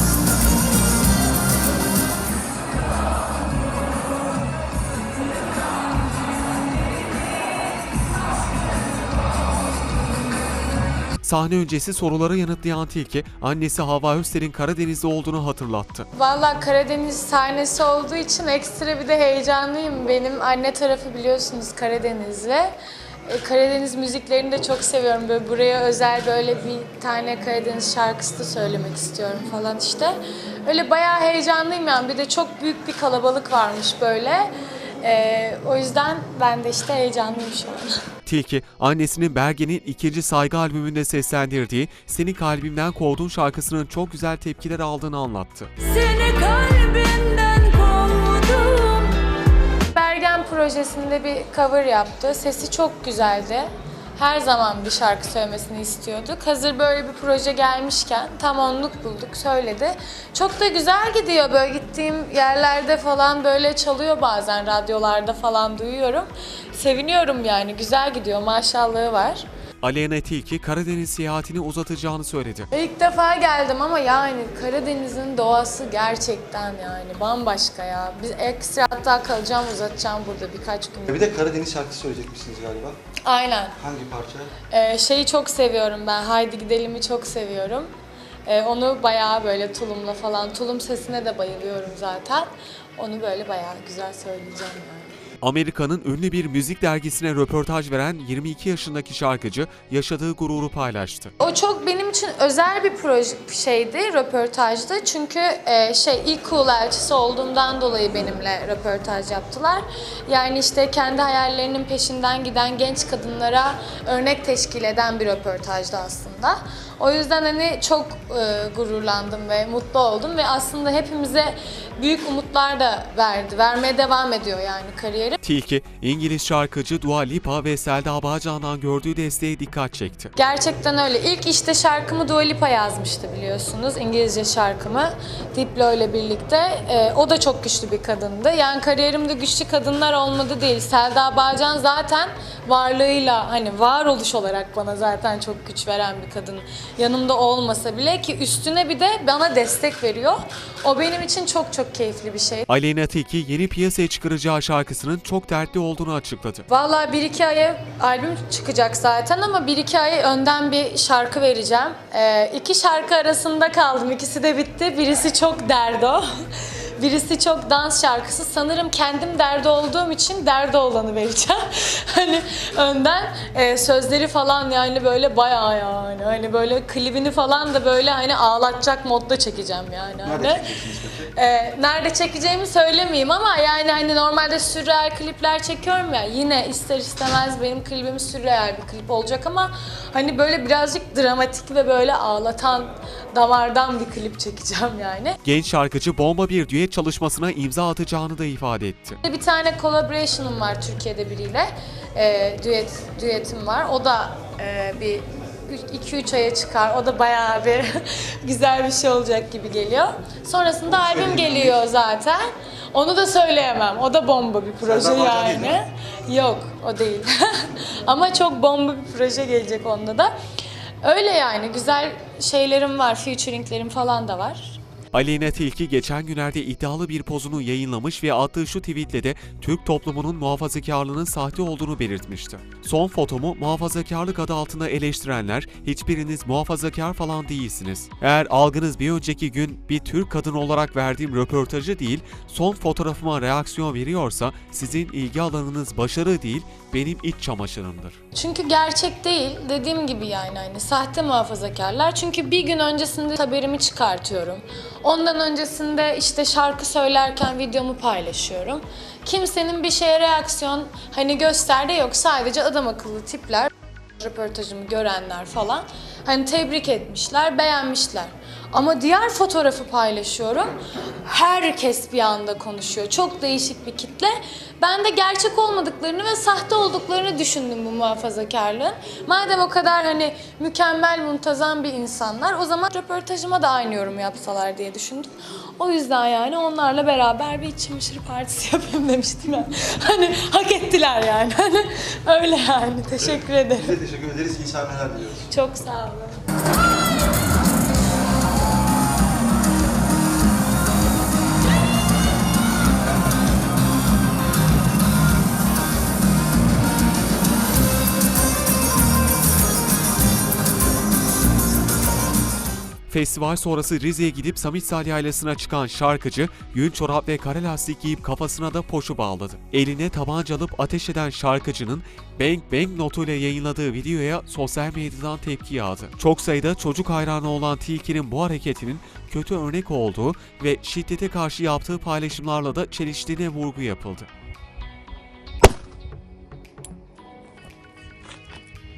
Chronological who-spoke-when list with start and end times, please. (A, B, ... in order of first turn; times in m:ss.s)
0:11.2-0:16.1 A
0:16.1-0:22.7 B
0:23.3-0:34.5 B
0:35.0-0:37.9 B
0:38.3-0:45.7 A
0:45.8-0:49.2 B
0:49.9-1:09.4 B
1:09.8-1:12.7 A
1:12.7-1:21.3 B
1:21.1-1:23.0 C
1:23.2-1:23.8 B
1:23.8-1:24.5 C
1:24.7-1:27.9 B
1:28.5-1:35.1 B
1:35.4-1:41.3 A
1:41.4-2:05.4 B
2:05.4-2:10.3 A
2:10.4-2:32.6 B
2:32.7-2:36.7 A
2:36.7-2:46.2 B
2:47.0-3:00.6 B
3:00.2-3:01.3 C
3:01.3-3:15.4 B
3:15.4-3:19.2 A
3:19.2-3:40.3 B
3:30.9-3:31.8 C
3:34.8-3:35.8 C
3:41.0-3:44.8 B
3:45.1-4:08.2 A
4:08.3-4:54.0 B
4:53.8-4:55.5 C
4:55.5-4:56.4 B
5:13.1-5:34.3 A